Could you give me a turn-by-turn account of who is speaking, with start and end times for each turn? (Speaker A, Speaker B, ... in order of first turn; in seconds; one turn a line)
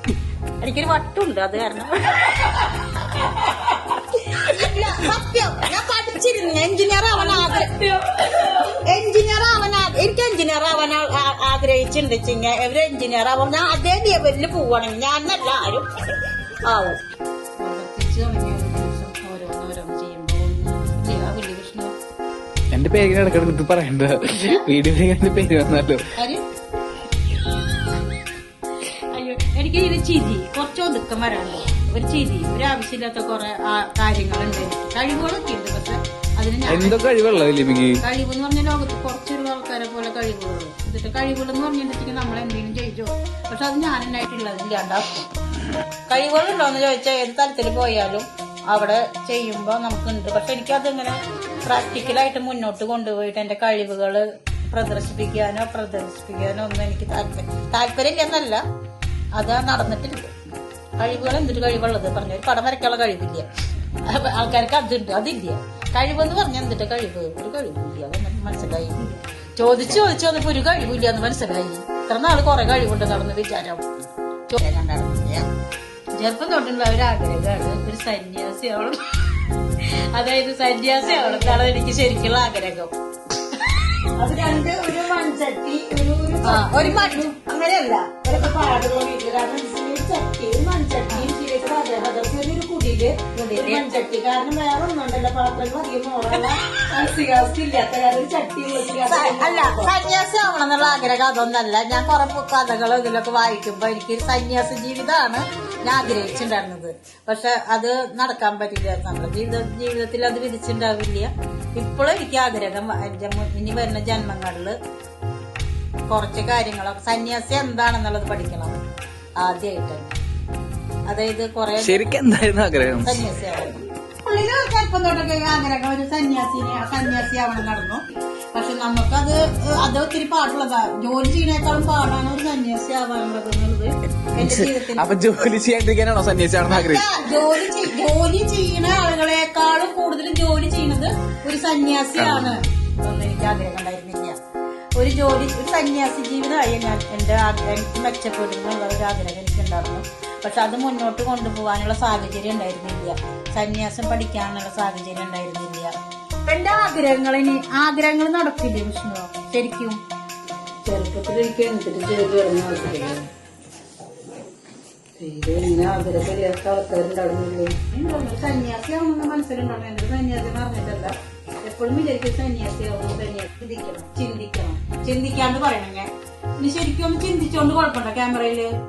Speaker A: 0.6-15.9
Speaker A: 16.6-17.0
Speaker A: 17.6-21.9
Speaker B: 22.7-26.0
Speaker A: 26.2-26.4
Speaker A: 28.9-37.1
Speaker B: 36.7-38.0
Speaker A: 38.0-45.3
Speaker A: 46.1-58.6
Speaker A: 59.4-60.3
Speaker A: 61.0-63.5
Speaker A: 64.0-73.9
Speaker A: 74.5-75.5
Speaker A: 76.2-79.3
Speaker A: 80.2-82.9
Speaker C: 81.0-81.7
Speaker C: 84.2-99.9
Speaker A: 86.4-87.3
Speaker A: 93.4-94.0
Speaker A: 99.1-114.8
Speaker A: 116.1-118.8
Speaker A: 119.4-120.2
Speaker A: 121.1-122.1
Speaker B: 121.8-123.1
Speaker A: 123.0-128.0
Speaker A: 128.5-135.1
Speaker B: 134.4-137.1
Speaker A: 136.7-144.4
Speaker B: 142.2-142.6
Speaker A: 145.0-155.9
Speaker A: 156.5-160.0
Speaker A: 160.8-163.2
Speaker A: 165.2-178.7